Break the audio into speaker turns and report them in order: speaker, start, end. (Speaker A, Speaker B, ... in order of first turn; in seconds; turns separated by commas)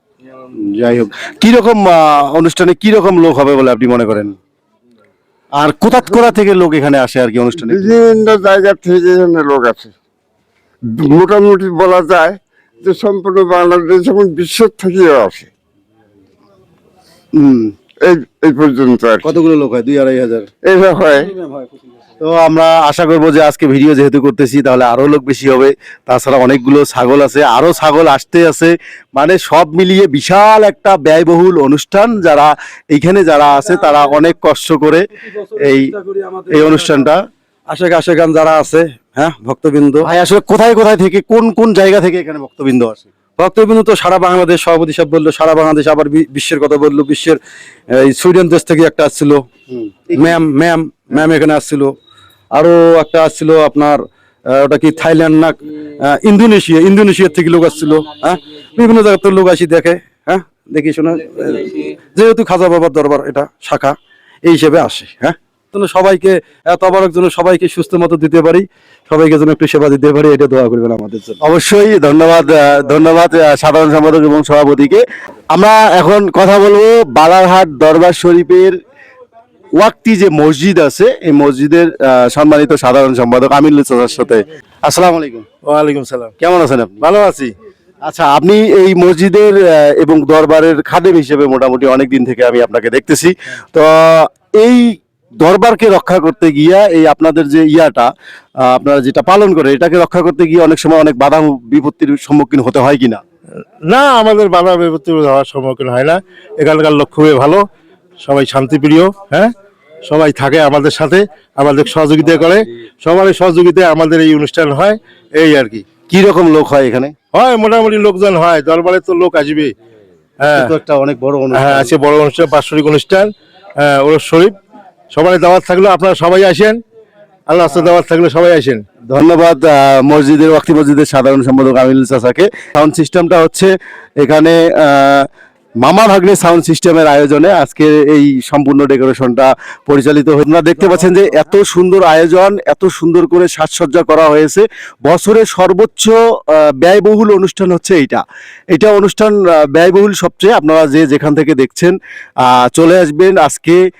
Speaker A: 0.5-4.4, Speaker A: 5.5-8.0, Speaker B: 7.6-9.9, Speaker B: 10.9-15.5, Speaker A: 17.4-17.7, Speaker B: 18.0-19.2, Speaker A: 19.2-20.5, Speaker B: 20.6-21.3, Speaker C: 21.4-21.8, Speaker A: 22.2-35.1, Speaker C: 33.6-34.3, Speaker C: 35.2-37.1, Speaker A: 35.6-35.9, Speaker A: 36.5-37.2, Speaker C: 37.7-40.1, Speaker A: 40.0-43.1, Speaker C: 43.4-47.4, Speaker C: 47.9-49.5, Speaker A: 49.7-50.4, Speaker C: 50.1-52.0, Speaker C: 52.5-71.4, Speaker A: 71.4-78.8, Speaker A: 79.8-85.5, Speaker D: 85.7-86.3, Speaker A: 86.4-87.0, Speaker D: 87.0-87.5, Speaker A: 88.0-103.2, Speaker D: 103.8-107.7, Speaker D: 108.2-109.5, Speaker D: 110.0-115.8, Speaker A: 116.1-117.1, Speaker D: 117.3-119.7, Speaker D: 120.4-120.7, Speaker A: 120.5-121.9, Speaker D: 121.5-124.6, Speaker D: 125.1-126.8, Speaker D: 127.5-128.8, Speaker A: 129.1-135.3, Speaker A: 135.8-153.8